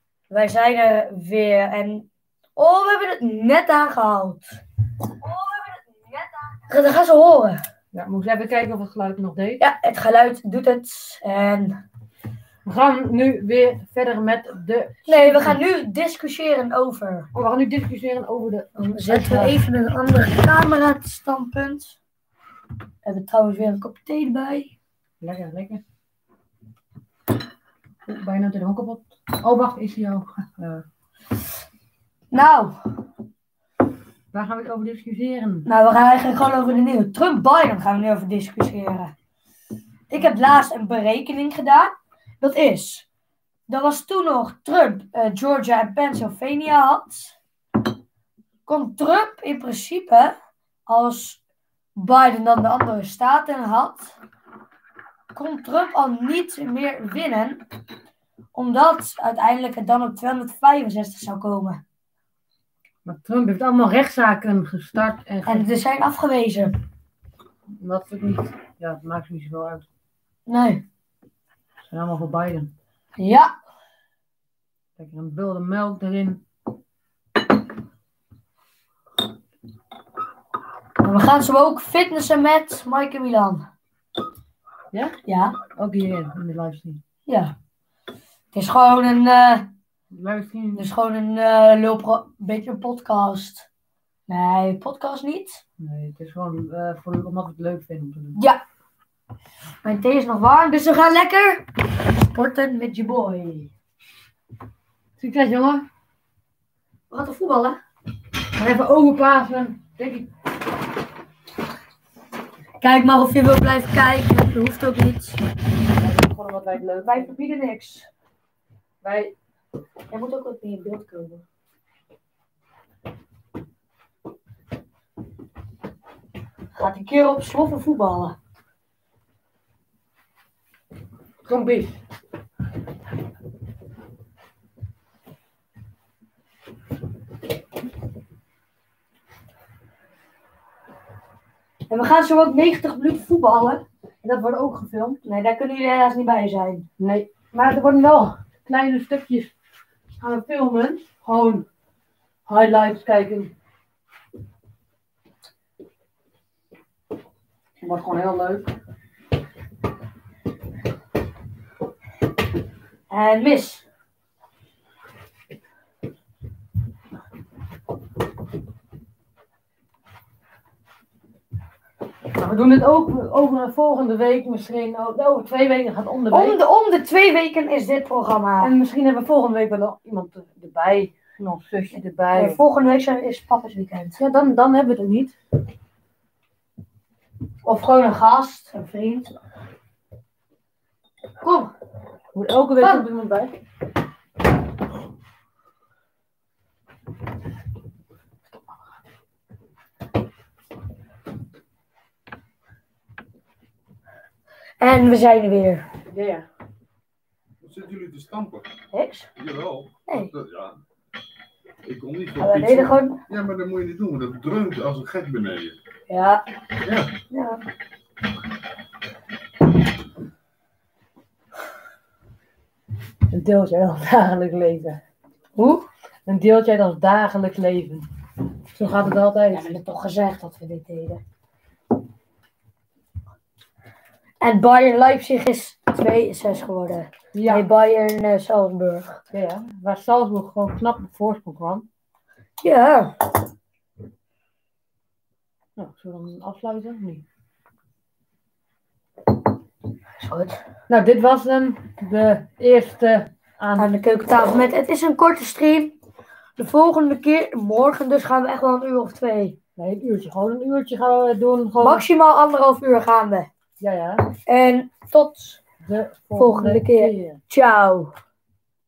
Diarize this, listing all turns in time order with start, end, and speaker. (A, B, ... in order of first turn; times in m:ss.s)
0:00.3-0:04.4 A
0:05.2-0:05.8 A
0:06.5-0:07.6 A
0:07.9-0:09.6 B
0:09.6-0:11.8 A
0:12.6-0:15.6 B
0:15.0-0:17.3 A
0:17.3-0:19.6 B
0:18.8-0:22.0 A
0:23.0-0:24.7 A
0:25.2-0:25.8 B
0:28.0-0:30.8 B
0:32.3-0:32.8 A
0:34.3-0:35.7 B
0:35.6-0:39.1 A
0:40.1-0:43.0 A
0:43.7-0:47.3 A
0:48.6-0:50.3 A
0:50.9-0:51.4 A
0:52.0-0:54.2 A
0:55.3-0:57.6 A
0:58.5-1:01.8 A
1:03.0-1:05.7 B
1:05.4-1:06.8 A
1:07.8-1:09.8 B
1:10.5-1:10.8 A
1:11.9-1:12.7 B
1:13.2-1:13.5 A
1:15.0-1:16.4 B
1:21.0-1:23.7 A
1:25.2-1:25.6 A
1:25.8-1:27.0 B
1:27.2-1:27.5 A
1:28.5-1:29.7 A
1:30.1-1:30.9 B
1:30.7-1:33.7 A
1:34.3-1:35.6 A
1:35.8-1:38.4 B
1:38.4-1:38.6 A
1:39.8-1:41.6 A
1:42.3-1:43.7 A
1:45.2-1:45.8 B
1:47.1-1:47.8 A
1:48.6-1:50.3 B
1:52.8-1:55.4 A
1:55.9-1:57.4 B
1:57.0-1:58.1 A
1:59.0-1:59.3 B
2:00.1-2:01.4 A
2:06.7-2:08.4 A
2:11.4-2:12.0 B
2:21.9-2:23.8 A
2:24.2-2:25.2 B
2:25.2-2:26.8 A
2:27.0-2:29.5 B
2:30.2-2:31.6 B
2:32.5-2:33.5 B
2:37.8-2:38.7 B
2:43.1-2:43.8 A
2:52.3-2:56.6 B
2:56.3-2:58.7 A
2:58.6-3:02.6 B
3:02.3-3:04.2 A
3:04.2-3:05.3 B
3:07.6-3:09.3 A
3:11.4-3:11.7 A
3:12.3-3:13.6 B
3:24.8-3:25.9 A
3:26.1-3:26.4 B
3:27.6-3:28.7 C
3:28.9-3:29.3 A
3:29.4-3:30.8 C
3:30.1-3:30.3 A
3:31.8-3:35.8 C
3:32.4-3:33.2 A
3:36.1-3:36.4 A
3:36.8-3:37.1 C
3:37.3-3:37.6 A
3:43.3-3:45.0 B
3:45.6-3:45.8 A
3:46.2-3:48.1 B
3:48.7-3:49.6 B
3:49.5-3:51.2 A
3:54.4-3:59.2 A
3:57.3-3:57.7 B
3:59.3-4:01.8 B
4:02.6-4:03.1 A
4:05.8-4:07.2 B
4:10.2-4:10.6 A
4:10.9-4:14.0 B
4:13.8-4:16.0 A
4:16.6-4:19.6 A
4:19.8-4:22.1 B
4:21.8-4:23.5 A
4:23.8-4:24.2 B
4:24.5-4:25.6 A
4:25.8-4:27.4 B
4:26.3-4:28.1 A